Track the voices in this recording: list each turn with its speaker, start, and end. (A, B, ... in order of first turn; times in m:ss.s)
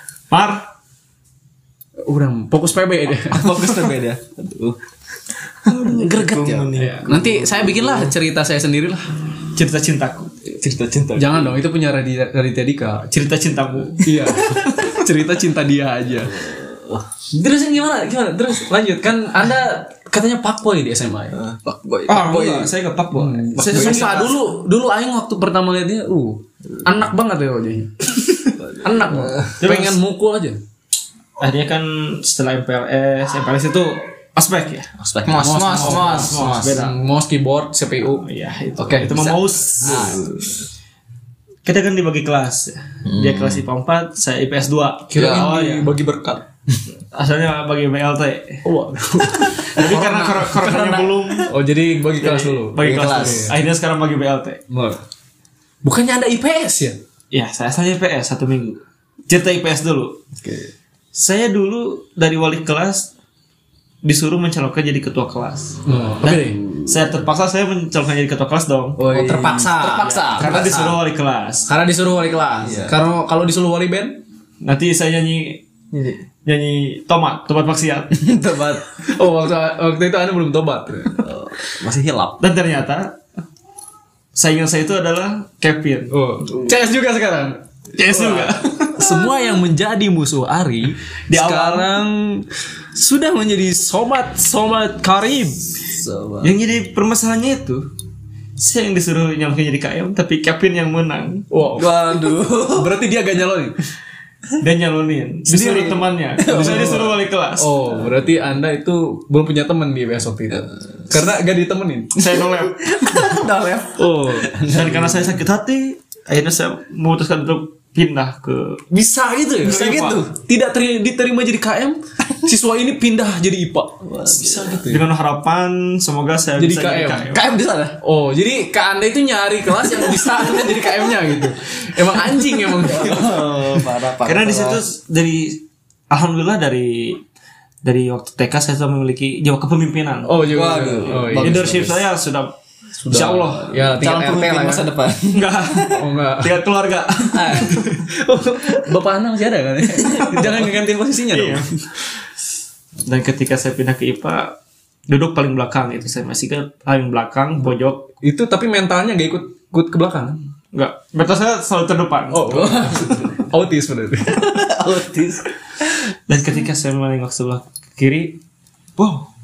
0:00.3-0:00.7 A
0:02.0-0:03.9 B
0:03.3-0:04.8 C
0:05.7-0:08.2 C
0:05.8-0:09.1 B
0:09.6-0:10.3 A
0:10.5-0:11.6 C
0:11.2-0:13.1 B
0:13.1-0:14.8 A
0:14.0-0:16.5 B
0:16.2-0:17.1 C
0:17.3-0:21.4 B
0:21.3-0:22.7 C
0:22.1-0:24.3 A
0:23.1-0:30.6 B
0:23.6-0:24.3 C
0:28.6-0:29.6 C
0:29.6-0:30.0 A
0:31.4-0:34.9 A
0:35.0-0:36.8 C
0:35.4-0:38.2 B
0:35.7-0:37.0 A
0:38.1-0:40.5 A
0:38.8-0:39.2 B
0:38.9-0:40.6 C
0:41.6-0:45.9 A
0:43.0-0:43.6 C
0:45.1-0:46.4 B
0:47.1-0:48.6 A
0:48.6-0:53.6 B
0:49.4-0:51.5 A
0:52.2-0:54.6 A
0:52.8-0:53.5 C
0:54.7-0:55.0 B
0:55.8-0:57.0 B
0:57.3-1:00.2 A
1:00.4-1:00.7 C
1:01.1-1:03.1 A
1:04.0-1:09.1 A
1:05.9-1:06.6 B
1:09.0-1:11.0 C
1:09.1-1:10.8 B
1:10.0-1:11.7 A
1:11.7-1:14.2 B
1:12.6-1:13.0 C
1:14.6-1:18.2 A
1:18.1-1:18.9 C
1:19.1-1:21.3 B
1:21.2-1:22.4 C
1:22.4-1:23.2 A
1:24.4-1:26.2 A
1:26.1-1:35.7 B
1:28.0-1:29.2 A
1:31.3-1:31.9 A
1:35.9-1:36.6 C
1:36.4-1:37.9 A
1:38.6-1:41.5 A
1:41.5-1:43.8 B
1:41.8-1:43.0 C
1:44.6-1:47.7 A
1:45.5-1:47.1 C
1:46.5-1:52.2 B
1:52.2-1:52.9 A
1:52.7-1:55.0 C
1:54.0-1:54.7 B
1:54.6-1:58.8 A
1:58.9-2:05.1 B
1:59.6-2:00.4 C
1:59.6-2:00.2 A
2:04.0-2:04.9 C
2:04.9-2:07.4 A
2:06.6-2:07.4 B
2:07.3-2:08.0 C
2:08.0-2:13.7 B
2:12.7-2:14.8 C
2:14.2-2:17.2 A
2:17.8-2:20.5 A
2:20.3-2:21.8 B
2:20.5-2:22.0 C
2:21.1-2:22.6 A
2:23.0-2:24.9 B
2:23.1-2:23.9 A
2:23.8-2:25.7 C
2:25.3-2:28.0 A
2:25.8-2:26.7 B
2:27.3-2:31.9 B
2:31.3-2:31.7 A
2:33.0-2:34.6 A
2:35.1-2:38.1 A
2:38.2-2:40.4 B
2:40.7-2:43.2 A
2:42.3-2:44.7 B
2:42.5-2:43.2 C
2:44.3-2:45.5 C
2:46.3-2:48.4 A
2:49.0-2:49.3 A